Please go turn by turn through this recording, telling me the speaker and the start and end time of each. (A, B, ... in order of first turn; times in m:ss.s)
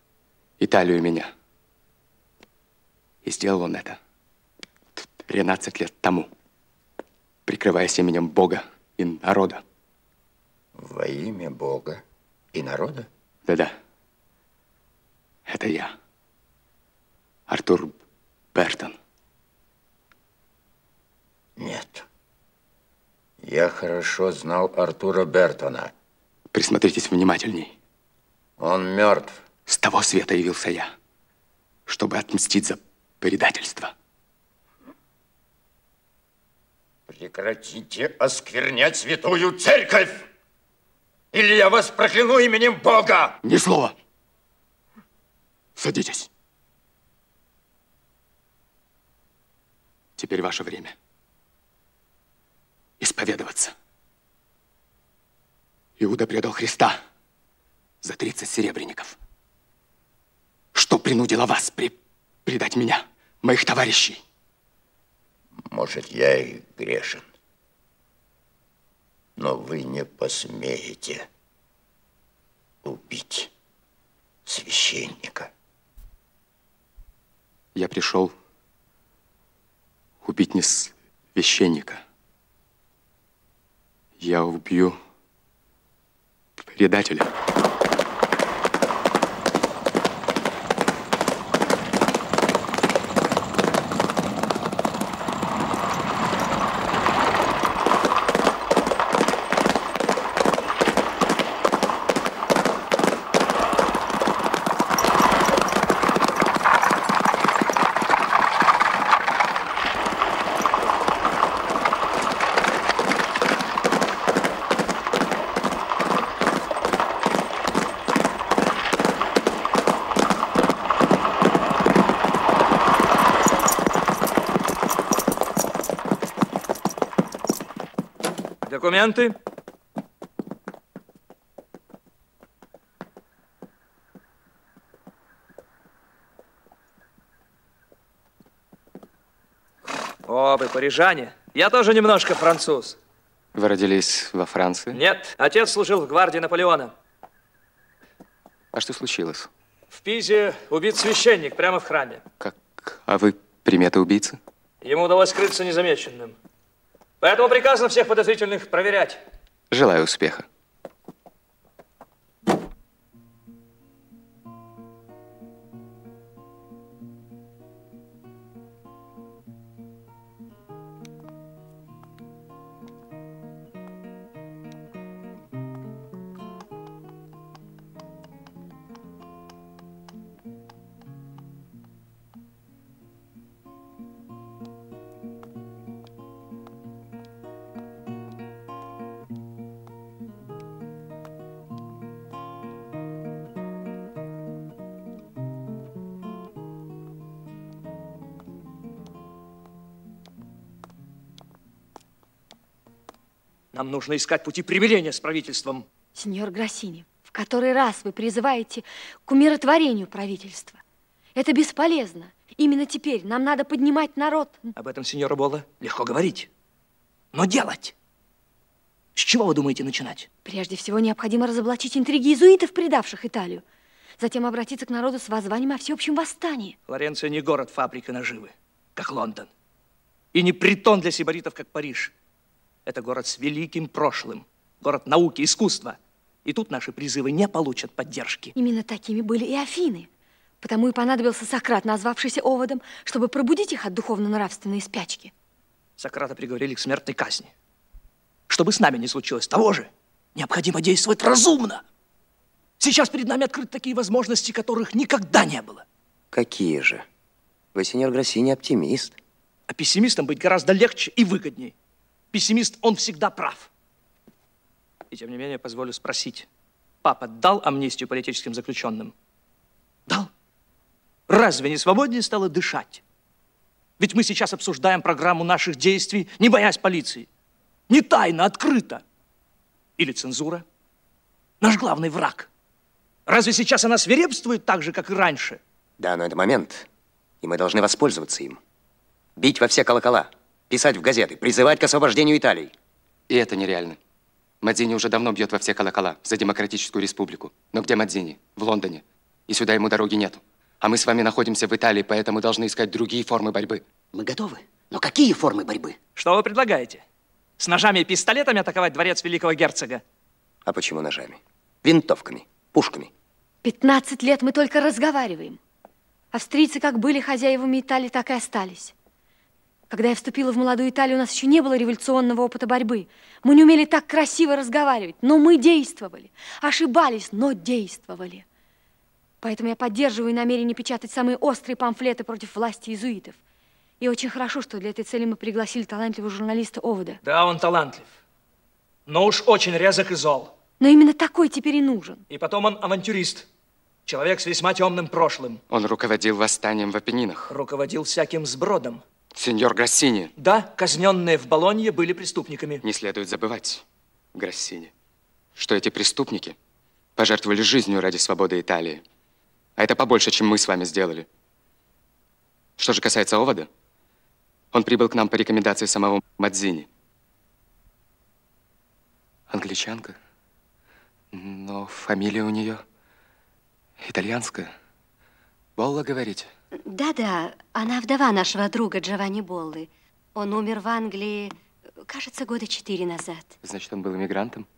0:00.6-0:01.3 A
0:03.2-0:04.0 A
0:05.0-0:06.3 A
0:07.4-0:09.6 A
0:10.8-0:13.1 B
0:13.5-0:13.8 A
0:15.5-0:16.0 A
0:17.5-0:18.0 A
0:18.5-0:19.0 A
0:21.6-0:22.0 B
0:23.4-0:25.9 B
0:26.5-0:27.7 A
0:28.6-0:29.4 B
0:29.7-0:30.9 A
0:31.9-0:33.9 A
0:37.1-0:40.3 B
0:41.3-0:43.4 B
0:43.4-0:43.9 A
0:45.8-0:46.3 A
0:50.2-0:50.9 A
0:53.0-0:53.7 A
0:56.0-0:57.0 A
0:58.0-0:59.2 A
1:00.7-1:04.2 A
1:05.7-1:07.3 B
1:09.4-1:11.3 B
1:12.8-1:13.5 B
1:14.4-1:15.5 B
1:17.7-1:18.3 A
1:20.2-1:22.0 A
1:24.2-1:25.0 A
1:26.7-1:27.3 A
2:08.6-2:09.4 C
2:20.2-2:23.0 C
2:23.5-2:25.0 A
2:24.9-2:26.9 C
2:28.7-2:29.5 A
2:29.9-2:32.2 C
2:32.4-2:34.4 A
2:34.8-2:36.3 C
2:37.2-2:39.2 C
2:39.7-2:40.5 A
3:23.7-3:25.8 C
3:26.1-3:30.8 D
3:31.3-3:34.6 D
3:34.8-3:36.5 C
3:37.3-3:37.9 C
3:39.2-3:40.3 C
3:40.4-3:43.6 D
3:44.2-3:46.7 D
3:46.9-3:49.5 C
3:50.3-3:52.1 C
3:52.8-3:58.5 C
3:58.6-4:00.1 D
4:00.6-4:05.3 D
4:06.0-4:07.5 C
4:08.5-4:11.8 C
4:12.8-4:15.8 C
4:16.3-4:17.0 E
4:17.7-4:19.1 E
4:19.7-4:21.7 C
4:22.3-4:23.7 C
4:25.1-4:26.5 C
4:27.0-4:29.1 C
4:31.3-4:33.0 C
4:34.0-4:37.3 C
4:37.9-4:39.0 C
4:40.0-4:40.6 C
4:41.6-4:42.5 C
4:43.3-4:45.6 C
4:46.0-4:46.8 E
4:47.4-4:48.6 E
4:49.4-4:52.7 E
4:53.3-4:54.0 A
4:54.6-5:03.8 A
5:04.2-5:06.0 E
5:06.2-5:07.0 C
5:07.6-5:10.0 C
5:10.6-5:13.1 E
5:13.6-5:15.6 D
5:16.3-5:18.9 D
5:19.9-5:28.4 D
5:29.4-5:33.4 D
5:34.0-5:37.2 D
5:37.2-5:38.1 C
5:39.1-5:40.5 C
5:40.8-5:42.2 D
5:42.3-5:43.5 C
5:44.0-5:45.6 C
5:45.7-5:47.5 A
5:47.5-5:49.0 C
5:49.3-5:50.3 A
5:50.4-5:52.8 C
5:52.8-5:53.8 A
5:54.3-5:54.9 A
5:55.6-5:56.6 A
5:57.2-5:59.0 A
5:59.8-6:01.3 A
6:02.8-6:03.7 A
6:04.7-6:06.9 A
6:09.5-6:10.2 A
6:11.3-6:12.8 A
6:14.0-6:14.7 A
6:15.8-6:16.5 A
6:16.7-6:23.5 F
6:23.6-6:24.7 A